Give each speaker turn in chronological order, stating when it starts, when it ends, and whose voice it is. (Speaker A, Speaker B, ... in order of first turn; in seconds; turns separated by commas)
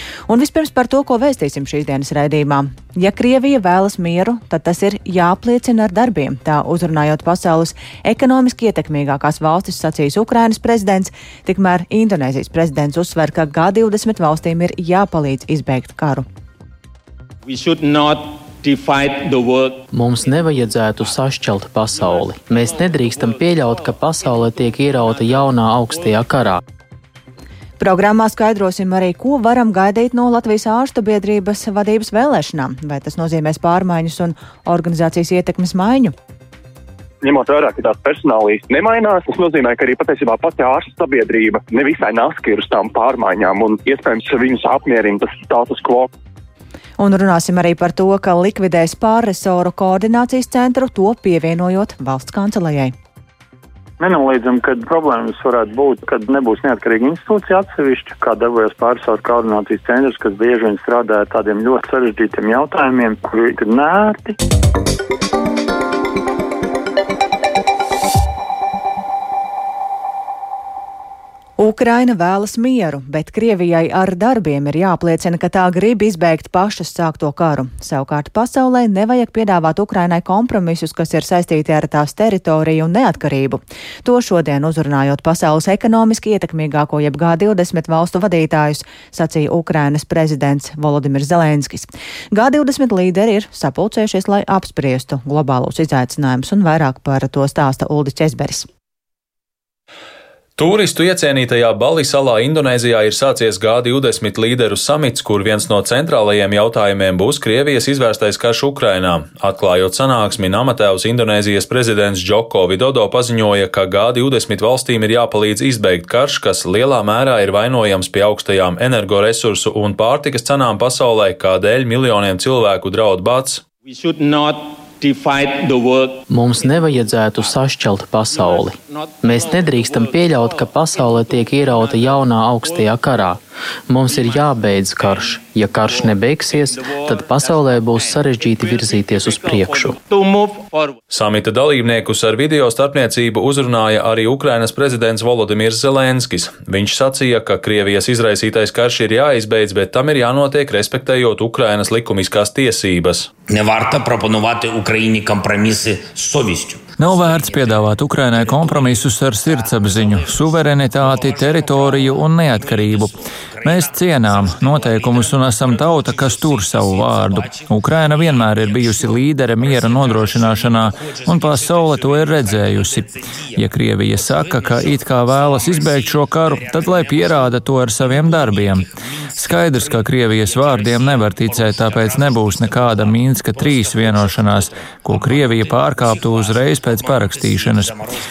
Speaker A: 0.3-16.2, Speaker B: 19.9-26.6, Speaker A: 27.8-36.1, Speaker C: 37.2-46.1, Speaker A: 47.0-52.9, Speaker D: 54.0-64.4, Speaker A: 71.6-98.7, Speaker E: 100.6-123.6, Speaker B: 126.3-140.0, Speaker E: 141.1-153.3, Speaker F: 153.5-156.9, Speaker G: 157.0-188.0